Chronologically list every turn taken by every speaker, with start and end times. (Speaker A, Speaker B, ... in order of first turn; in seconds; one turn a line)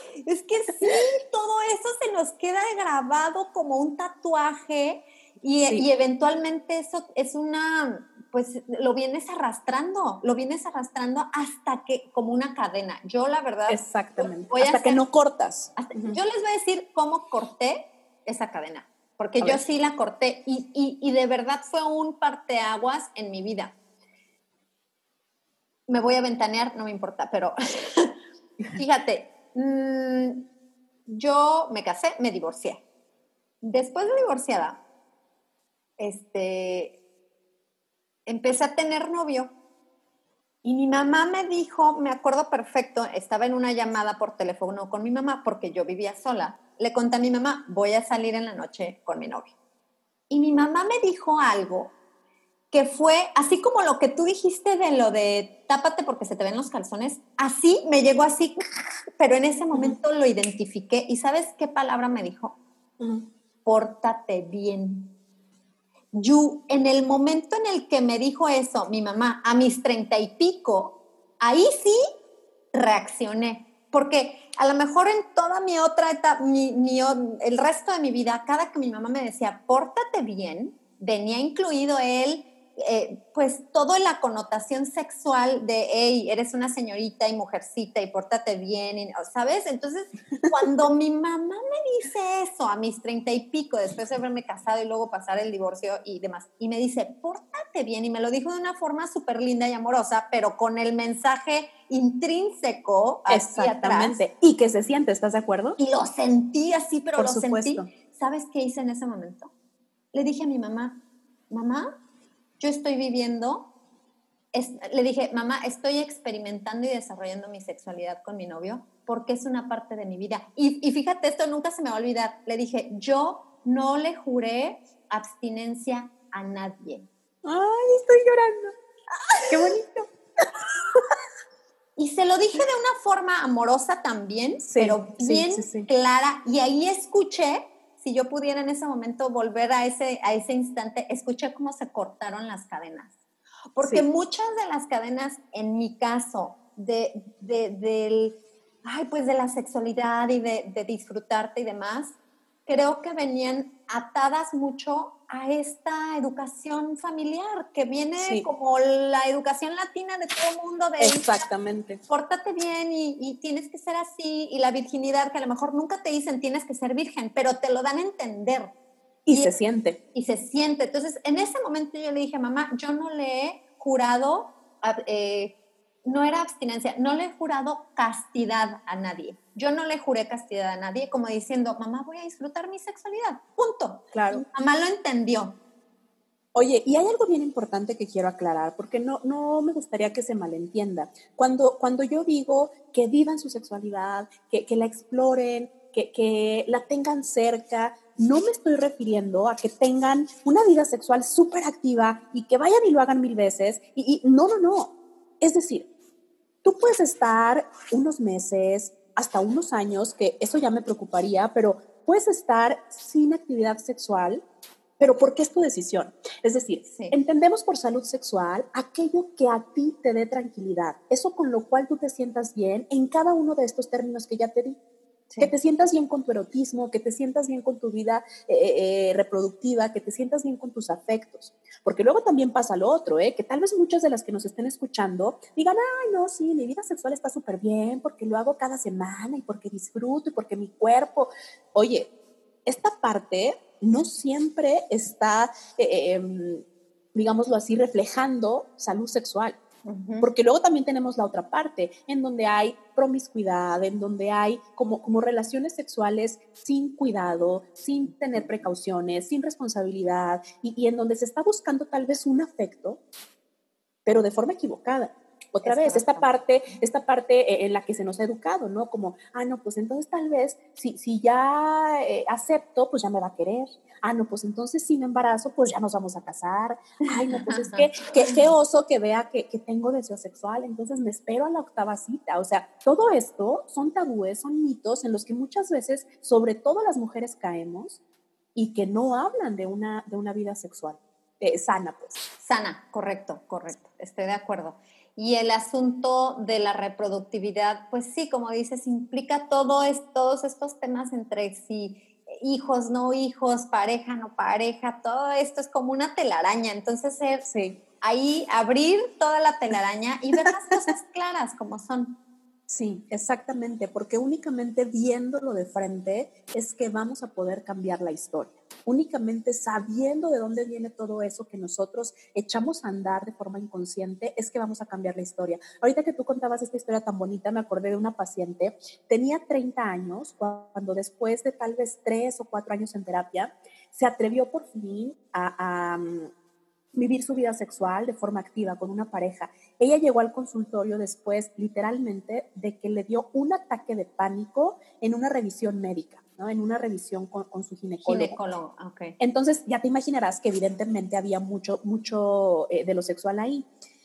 Speaker A: 0.2-15.0
Speaker B: 13.7-16.2
Speaker A: 15.8-23.8
Speaker A: 25.9-28.2
Speaker A: 28.8-30.5
Speaker A: 31.1-32.8
Speaker A: 33.6-34.8
Speaker A: 36.0-37.0
Speaker A: 38.3-39.5
Speaker A: 40.6-49.5
Speaker A: 50.3-51.9
Speaker A: 52.7-58.6
Speaker A: 59.2-62.6
Speaker B: 63.0-63.3
Speaker A: 63.6-65.1
Speaker A: 66.1-72.0
Speaker A: 72.7-104.2
Speaker B: 103.3-105.8
Speaker A: 105.8-109.5
Speaker B: 107.2-107.9
Speaker A: 110.1-112.0
Speaker A: 112.6-113.7
Speaker A: 114.5-127.1
Speaker B: 127.5-128.7
Speaker B: 129.5-131.0
Speaker A: 132.0-143.1
Speaker B: 134.6-135.9
Speaker A: 143.8-161.4
Speaker B: 143.8-144.1
Speaker B: 158.2-158.5
Speaker B: 161.0-162.0
Speaker A: 162.1-168.7
Speaker B: 169.3-170.0
Speaker A: 170.1-185.6
Speaker B: 184.1-184.4
Speaker B: 186.6-205.9
Speaker B: 206.6-214.4
Speaker B: 215.0-224.8
Speaker A: 216.8-217.2
Speaker B: 225.4-242.1
Speaker B: 242.7-249.6
Speaker A: 249.8-250.3
Speaker B: 250.2-263.0
Speaker A: 258.3-258.7
Speaker B: 264.1-288.0
Speaker A: 265.6-266.8
Speaker A: 277.1-277.9
Speaker B: 288.6-292.2
Speaker A: 292.4-307.5
Speaker B: 307.5-307.8
Speaker A: 308.0-312.2
Speaker B: 312.7-336.3
Speaker B: 336.9-348.4
Speaker A: 348.1-349.2
Speaker B: 349.2-353.7